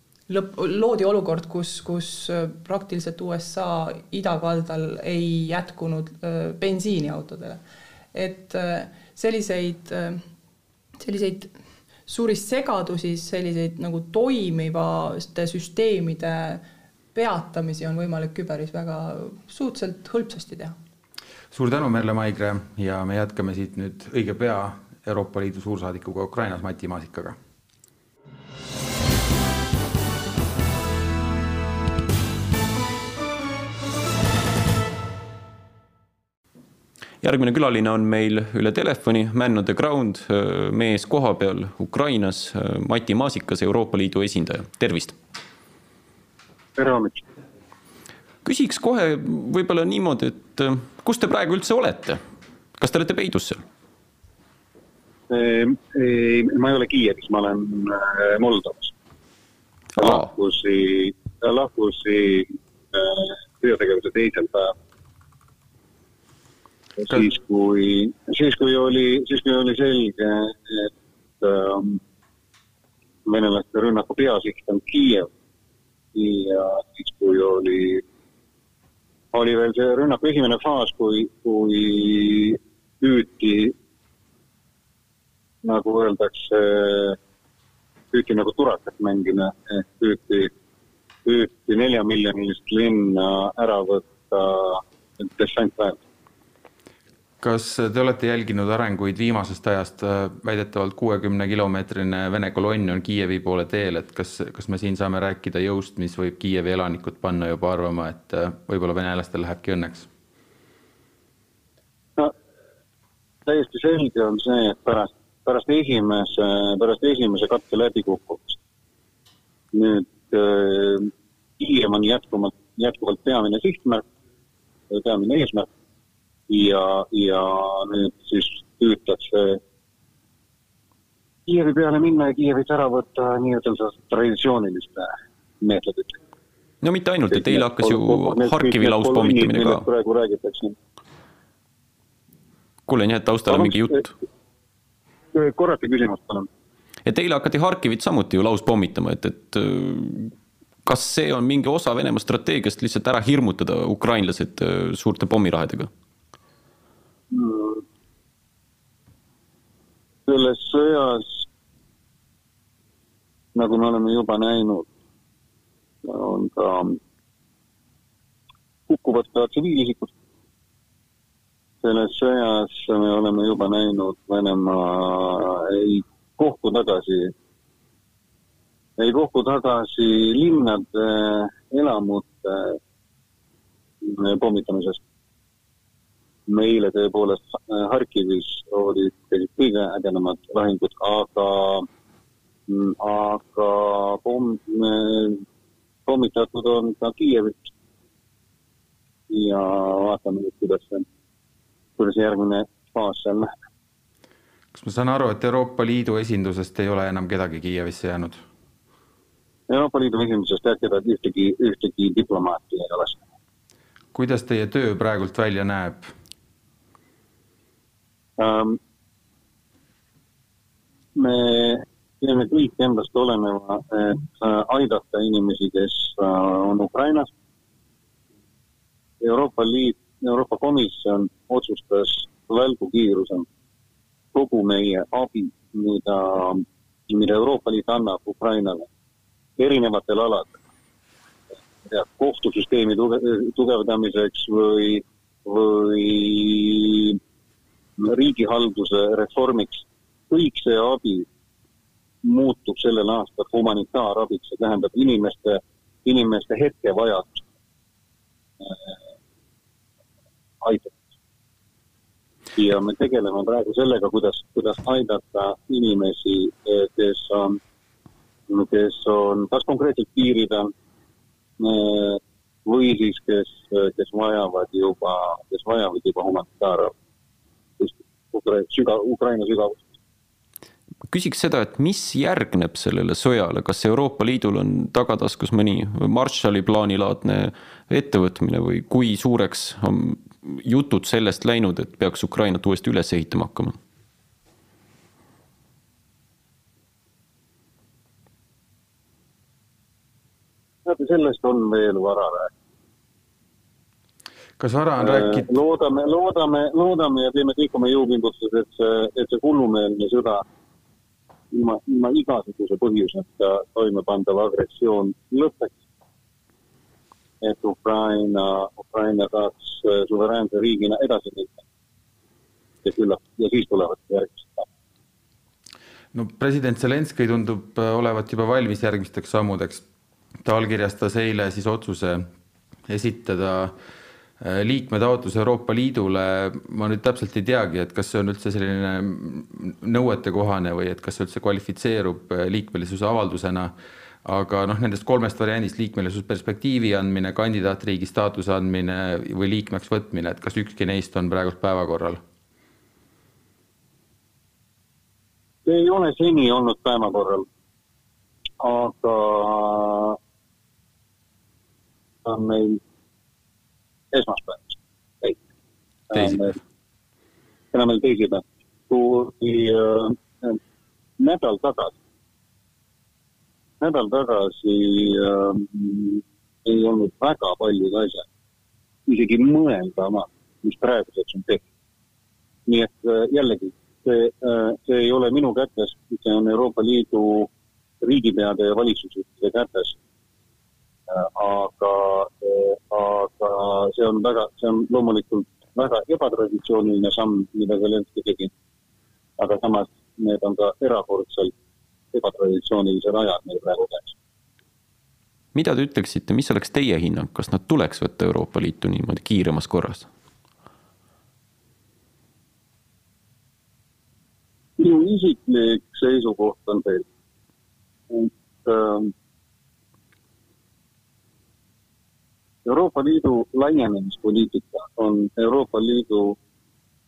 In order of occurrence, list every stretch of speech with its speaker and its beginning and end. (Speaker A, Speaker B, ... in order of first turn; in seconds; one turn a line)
Speaker A: 0.3-7.6
Speaker A: 8.1-10.2
Speaker A: 11.0-11.5
Speaker A: 12.1-16.6
Speaker A: 17.1-20.8
Speaker B: 21.5-27.4
Speaker C: 37.2-45.2
Speaker D: 46.8-47.2
Speaker C: 48.4-52.2
Speaker C: 52.8-53.6
Speaker D: 55.3-58.9
Speaker D: 60.0-64.7
Speaker C: 60.0-60.2
Speaker D: 67.0-72.0
Speaker D: 73.2-75.3
Speaker D: 76.1-78.0
Speaker D: 79.3-83.7
Speaker D: 85.6-87.2
Speaker D: 88.1-90.5
Speaker D: 91.2-96.0
Speaker B: 97.4-110.1
Speaker D: 113.5-118.5
Speaker D: 119.7-124.0
Speaker D: 124.9-125.7
Speaker D: 126.5-129.6
Speaker D: 131.5-136.2
Speaker C: 136.8-139.8
Speaker D: 137.3-140.8
Speaker C: 142.9-144.1
Speaker D: 143.5-144.0
Speaker D: 145.3-146.5
Speaker C: 147.1-150.3
Speaker C: 150.8-155.9
Speaker D: 157.3-157.8
Speaker D: 160.3-161.4
Speaker D: 163.5-164.9
Speaker D: 166.0-167.0
Speaker D: 168.9-170.1
Speaker D: 171.8-177.3
Speaker D: 179.0-182.8
Speaker D: 184.0-185.0
Speaker D: 186.5-191.8
Speaker D: 192.7-195.4
Speaker D: 196.1-197.7
Speaker D: 199.3-201.1
Speaker D: 202.0-203.5
Speaker B: 204.7-208.4
Speaker D: 209.7-213.2
Speaker B: 214.1-216.1
Speaker D: 218.4-218.8
Speaker D: 221.2-227.3
Speaker D: 229.2-233.5
Speaker D: 234.3-238.9
Speaker D: 239.6-240.6
Speaker D: 241.8-247.2
Speaker D: 248.0-251.2
Speaker D: 252.2-257.4
Speaker D: 258.6-259.0
Speaker D: 260.6-260.9
Speaker D: 262.6-267.6
Speaker D: 268.5-270.7
Speaker D: 271.6-276.9
Speaker D: 277.8-279.8
Speaker C: 281.1-293.8
Speaker D: 300.8-302.5
Speaker B: 304.6-305.5
Speaker D: 305.0-310.4
Speaker D: 311.5-315.7
Speaker D: 317.4-321.6
Speaker D: 322.8-324.6
Speaker B: 326.1-329.8
Speaker B: 330.4-332.3
Speaker B: 332.9-333.7
Speaker B: 334.4-352.2
Speaker D: 355.6-357.4
Speaker D: 358.6-360.2
Speaker D: 362.2-362.8
Speaker D: 364.1-365.4
Speaker D: 366.1-366.5
Speaker B: 366.1-366.5
Speaker D: 367.7-370.6
Speaker D: 371.2-372.0
Speaker D: 373.8-378.2
Speaker D: 379.1-381.6
Speaker D: 382.7-387.5
Speaker D: 388.0-389.9
Speaker D: 391.1-398.5
Speaker D: 399.4-401.5
Speaker D: 402.1-404.1
Speaker C: 405.5-410.1
Speaker D: 414.8-417.1
Speaker D: 418.1-419.1
Speaker D: 422.6-426.4